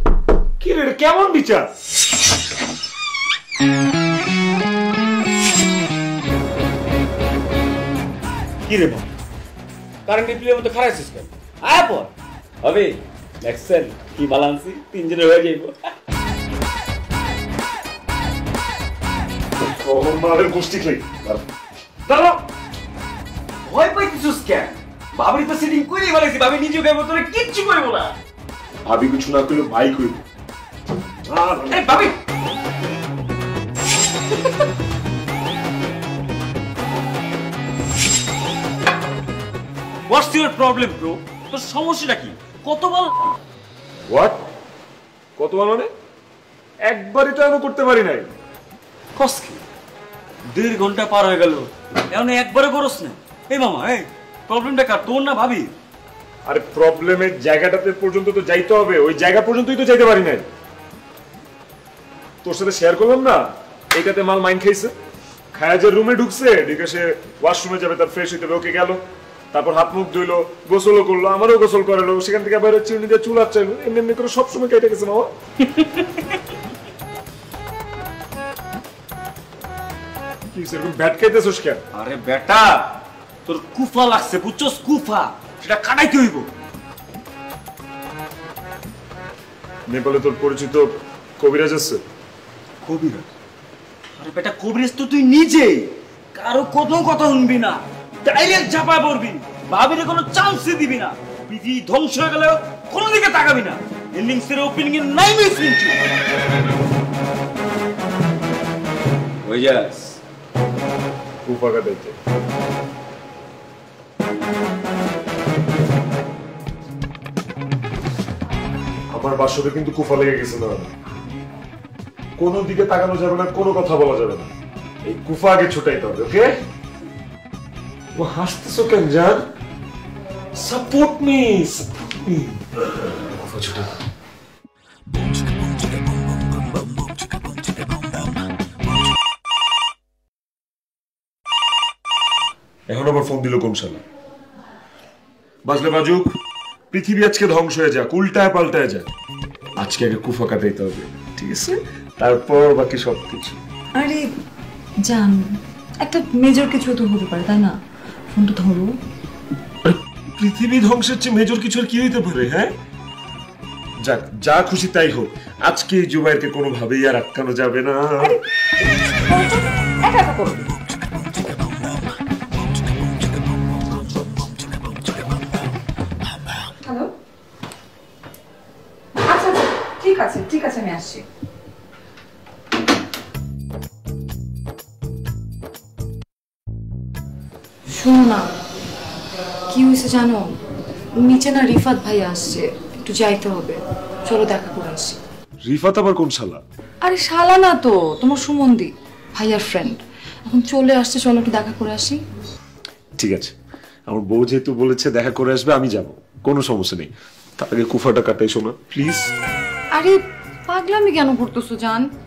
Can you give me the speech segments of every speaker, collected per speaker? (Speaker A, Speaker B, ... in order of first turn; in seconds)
Speaker A: 0.6-1.7, 19.6-21.4, 22.1-22.4, 28.8-30.2, 31.3-31.8, 44.1-44.4, 45.4-45.9, 46.8-48.3, 56.5-60.5, 62.4-64.9, 65.5-69.0, 69.5-75.3, 80.5-81.8, 89.9-92.0, 111.5-112.2, 119.1-120.9, 122.4-124.5, 125.0-126.5, 128.1-129.5, 130.6-133.9, 142.9-144.0, 145.6-146.3, 146.9-149.1, 149.8-153.6, 159.8-162.7, 164.0-168.4, 195.6-196.6, 203.2-203.5, 204.1-209.3
Speaker B: 8.7-9.1, 10.1-12.1, 12.6-15.8, 23.6-28.2, 31.5-32.2, 40.1-43.1, 49.1-49.6, 50.5-55.7, 75.8-76.1, 81.9-86.5, 92.8-93.3, 94.2-106.0, 109.4-110.2
Speaker C: 153.9-154.3, 155.0-157.8, 158.3-158.9, 169.1-170.7, 176.8-177.1, 179.1-181.2, 187.9-188.5, 189.7-190.5, 191.2-195.2, 197.0-202.2, 209.9-212.0